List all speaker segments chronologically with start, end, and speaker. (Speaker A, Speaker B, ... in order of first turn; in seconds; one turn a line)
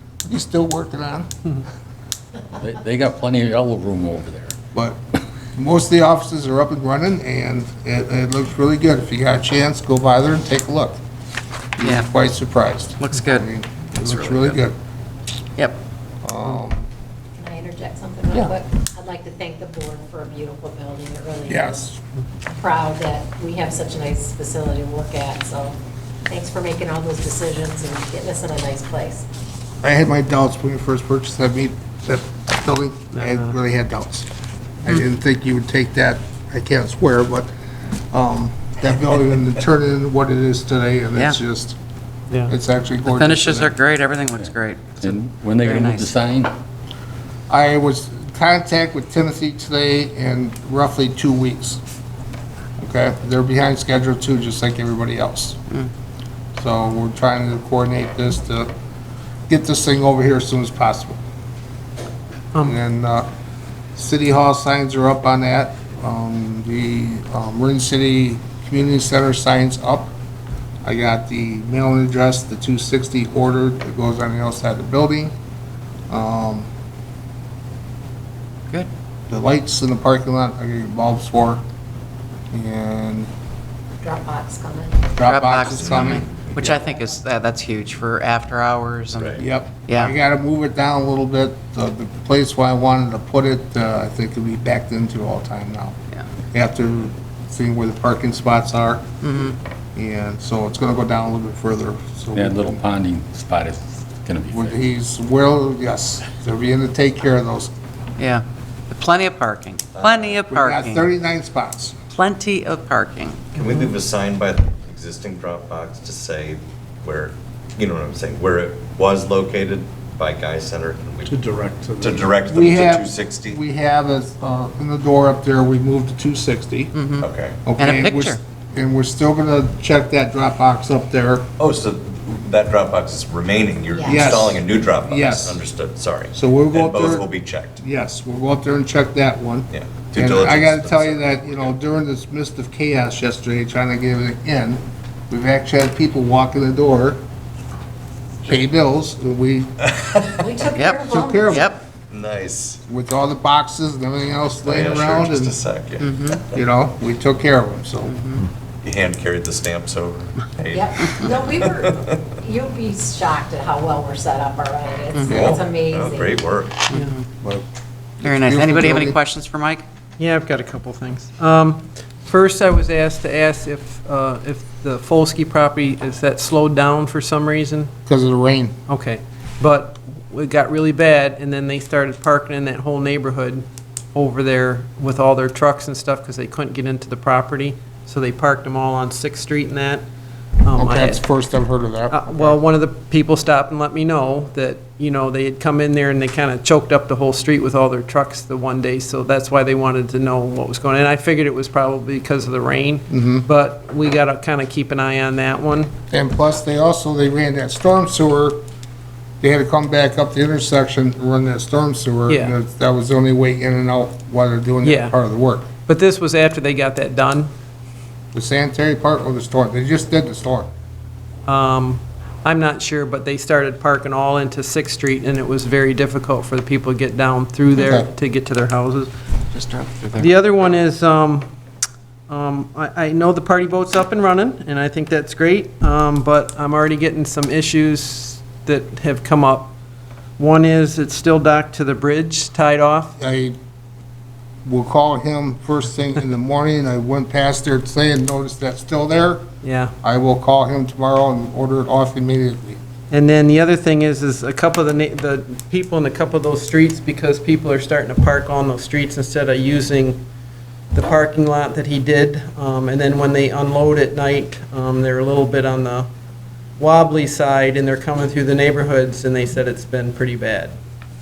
Speaker A: 0.2-1.3
Speaker B: 2.5-4.5
Speaker A: 4.7-5.0
Speaker A: 5.5-11.0
Speaker A: 11.8-14.7
Speaker C: 11.8-12.1
Speaker C: 13.0-13.5
Speaker C: 14.1-14.6
Speaker A: 16.2-16.9
Speaker D: 17.4-21.9
Speaker A: 21.5-22.0
Speaker D: 22.5-25.7
Speaker D: 26.3-29.2
Speaker A: 29.8-34.3
Speaker E: 33.1-33.5
Speaker A: 34.8-37.5
Speaker A: 38.1-41.8
Speaker A: 42.5-43.8
Speaker C: 43.0-45.0
Speaker B: 44.4-46.5
Speaker C: 45.6-46.0
Speaker A: 47.5-51.8
Speaker A: 52.8-55.6
Speaker A: 56.6-58.7
Speaker A: 59.5-61.2
Speaker A: 62.6-63.3
Speaker A: 63.9-70.1
Speaker A: 70.8-75.3
Speaker A: 76.1-76.7
Speaker A: 79.3-81.6
Speaker A: 82.5-83.3
Speaker D: 84.0-85.1
Speaker A: 85.1-86.8
Speaker C: 85.2-90.1
Speaker F: 85.7-86.6
Speaker A: 89.4-96.0
Speaker A: 96.5-99.0
Speaker C: 99.2-99.5
Speaker A: 99.9-102.8
Speaker B: 102.3-104.8
Speaker A: 104.5-107.7
Speaker C: 108.2-111.1
Speaker F: 109.9-110.4
Speaker A: 110.5-111.9
Speaker C: 112.1-113.6
Speaker F: 113.5-123.6
Speaker A: 122.4-126.9
Speaker C: 126.9-128.4
Speaker F: 127.2-127.7
Speaker A: 127.6-131.5
Speaker F: 131.6-137.8
Speaker D: 133.9-134.4
Speaker A: 134.1-135.6
Speaker A: 136.3-137.2
Speaker A: 137.8-147.2
Speaker F: 139.7-141.7
Speaker A: 148.4-149.7
Speaker F: 149.8-150.5
Speaker D: 150.3-151.6
Speaker C: 150.7-151.8
Speaker A: 151.0-151.7
Speaker F: 152.1-152.8
Speaker A: 152.9-155.5
Speaker F: 154.5-156.6
Speaker C: 156.0-156.4
Speaker A: 156.5-158.2
Speaker C: 158.1-158.4
Speaker F: 158.8-162.2
Speaker D: 160.7-166.4
Speaker A: 165.3-165.6
Speaker F: 165.3-166.8
Speaker C: 166.9-167.2
Speaker A: 168.2-169.2
Speaker C: 168.2-169.8
Speaker E: 170.2-177.9
Speaker A: 178.1-178.7
Speaker E: 178.9-190.0
Speaker E: 190.6-191.2
Speaker A: 190.8-192.6
Speaker E: 192.1-205.9
Speaker A: 203.1-203.5
Speaker A: 206.1-208.6
Speaker A: 209.4-215.7
Speaker E: 212.3-212.5
Speaker E: 214.8-215.1
Speaker E: 215.9-217.5
Speaker A: 218.3-220.7
Speaker E: 221.5-229.1
Speaker A: 227.7-228.1
Speaker C: 229.5-230.3
Speaker E: 230.2-231.5
Speaker E: 232.3-239.7
Speaker E: 240.4-243.1
Speaker A: 243.2-243.6
Speaker A: 244.6-249.4
Speaker E: 249.6-249.9
Speaker A: 250.0-252.8
Speaker E: 253.1-260.2
Speaker E: 260.9-266.1
Speaker E: 266.8-270.7